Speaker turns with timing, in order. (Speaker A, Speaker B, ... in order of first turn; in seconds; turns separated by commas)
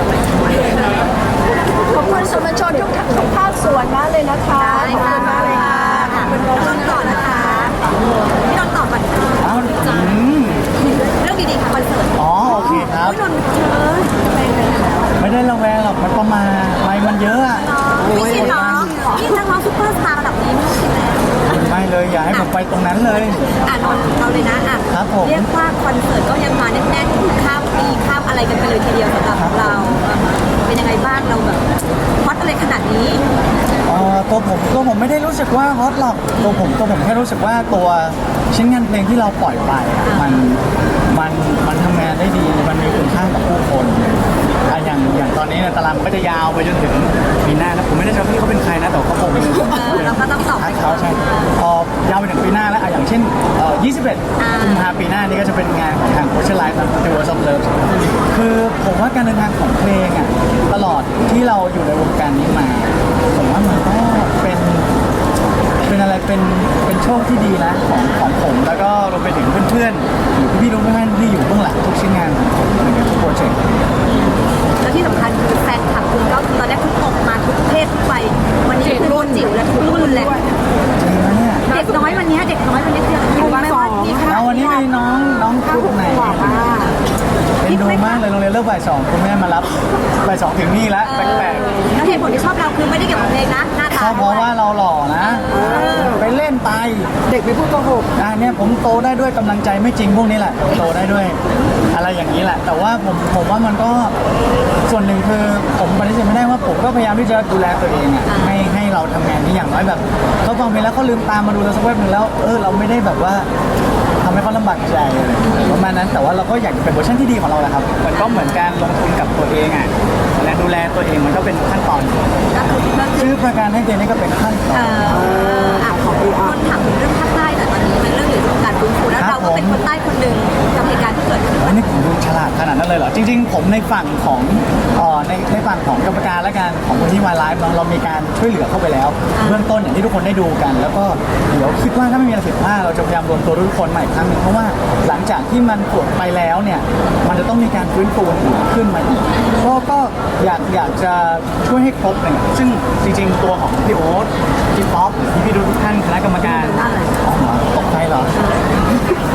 Speaker A: 1.8-7.8, Speaker B: 4.5-7.8, Speaker B: 8.4-9.8, Speaker C: 9.4-10.7, Speaker B: 11.1-14.3, Speaker C: 12.2-13.2, Speaker C: 15.2-19.0, Speaker B: 17.5-21.6, Speaker C: 21.4-23.4, Speaker B: 23.5-31.6, Speaker C: 24.9-25.5, Speaker C: 29.3-30.0, Speaker B: 32.2-33.2, Speaker C: 33.9-64.9, Speaker B: 36.3-36.6, Speaker B: 40.0-40.5, Speaker B: 49.4-51.5, Speaker B: 54.4-54.9, Speaker C: 65.8-73.7, Speaker B: 74.1-80.5, Speaker D: 79.0-79.7, Speaker C: 81.0-81.6, Speaker B: 81.7-84.8, Speaker D: 81.7-82.0, Speaker D: 83.4-84.7, Speaker C: 84.2-86.7, Speaker D: 85.7-86.9, Speaker B: 86.6-86.9, Speaker B: 87.6-88.2, Speaker C: 87.6-91.8, Speaker B: 91.0-94.5, Speaker C: 93.9-97.1, Speaker B: 95.2-96.2, Speaker D: 95.6-96.0, Speaker D: 97.3-98.0, Speaker C: 98.2-101.4, Speaker C: 101.9-104.1, Speaker C: 104.8-113.5, Speaker B: 108.2-108.8, Speaker C: 114.2-122.4, Speaker B: 118.1-118.7, Speaker B: 122.5-123.3, Speaker C: 123.1-125.4, Speaker B: 124.7-131.8, Speaker D: 125.2-126.5, Speaker C: 129.2-129.8, Speaker C: 131.6-158.3, Speaker B: 139.3-139.7, Speaker B: 149.4-149.7, Speaker B: 156.6-157.1, Speaker B: 158.3-158.7